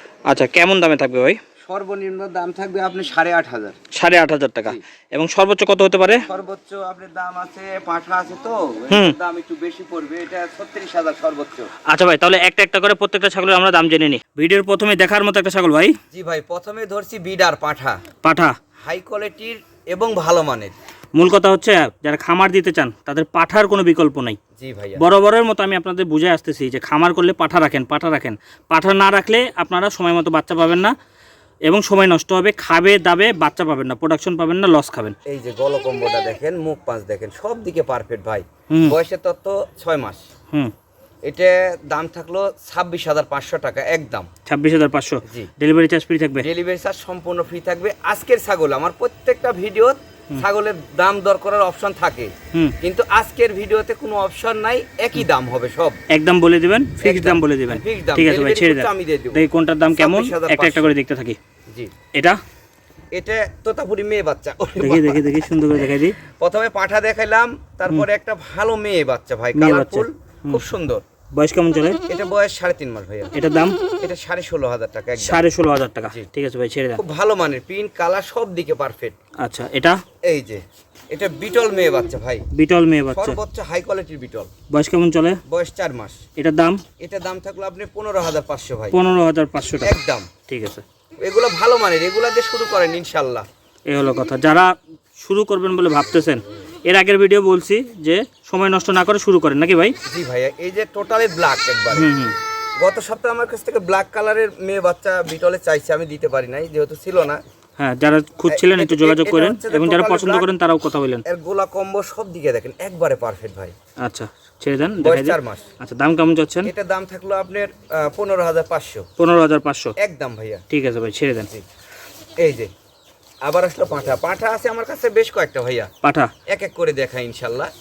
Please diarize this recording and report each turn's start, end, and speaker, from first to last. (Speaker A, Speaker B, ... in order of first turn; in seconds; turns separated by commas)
Speaker A: 0.3-1.4, Speaker B: 1.7-3.8, Speaker A: 3.9-6.2, Speaker B: 6.2-11.7, Speaker A: 8.9-9.2, Speaker A: 11.9-15.9, Speaker B: 16.1-18.0, Speaker A: 18.2-18.6, Speaker B: 18.8-20.8, Speaker A: 21.2-24.4, Speaker B: 24.6-25.0, Speaker A: 25.0-30.9, Speaker A: 31.7-35.2, Speaker B: 35.3-40.2, Speaker B: 41.3-44.3, Speaker A: 44.5-46.5, Speaker B: 46.4-56.0, Speaker A: 56.1-61.4, Speaker B: 57.0-59.4, Speaker B: 60.0-60.9, Speaker B: 63.1-65.4, Speaker A: 64.8-66.2, Speaker B: 66.4-71.0, Speaker A: 69.5-70.6, Speaker A: 71.4-72.0, Speaker B: 72.1-73.3, Speaker A: 73.3-73.8, Speaker B: 74.0-75.4, Speaker A: 75.2-77.0, Speaker B: 77.0-79.2, Speaker A: 79.4-80.0, Speaker B: 80.2-82.5, Speaker A: 82.5-83.4, Speaker B: 83.1-84.5, Speaker A: 84.7-85.4, Speaker B: 85.5-86.2, Speaker A: 86.4-86.8, Speaker B: 87.0-89.0, Speaker A: 88.9-90.0, Speaker B: 89.8-90.3, Speaker A: 90.5-90.8, Speaker B: 91.2-93.5, Speaker A: 93.9-100.0, Speaker B: 100.1-102.2, Speaker A: 101.9-102.4, Speaker B: 102.8-107.4, Speaker A: 107.8-111.2, Speaker B: 108.5-110.5, Speaker B: 111.3-113.8, Speaker A: 114.0-116.7, Speaker B: 115.0-115.7, Speaker B: 116.7-119.1, Speaker A: 119.2-119.9, Speaker B: 120.0-120.6, Speaker A: 120.7-121.5, Speaker B: 122.4-122.7, Speaker B: 123.4-125.9, Speaker A: 126.0-126.3, Speaker B: 126.5-127.7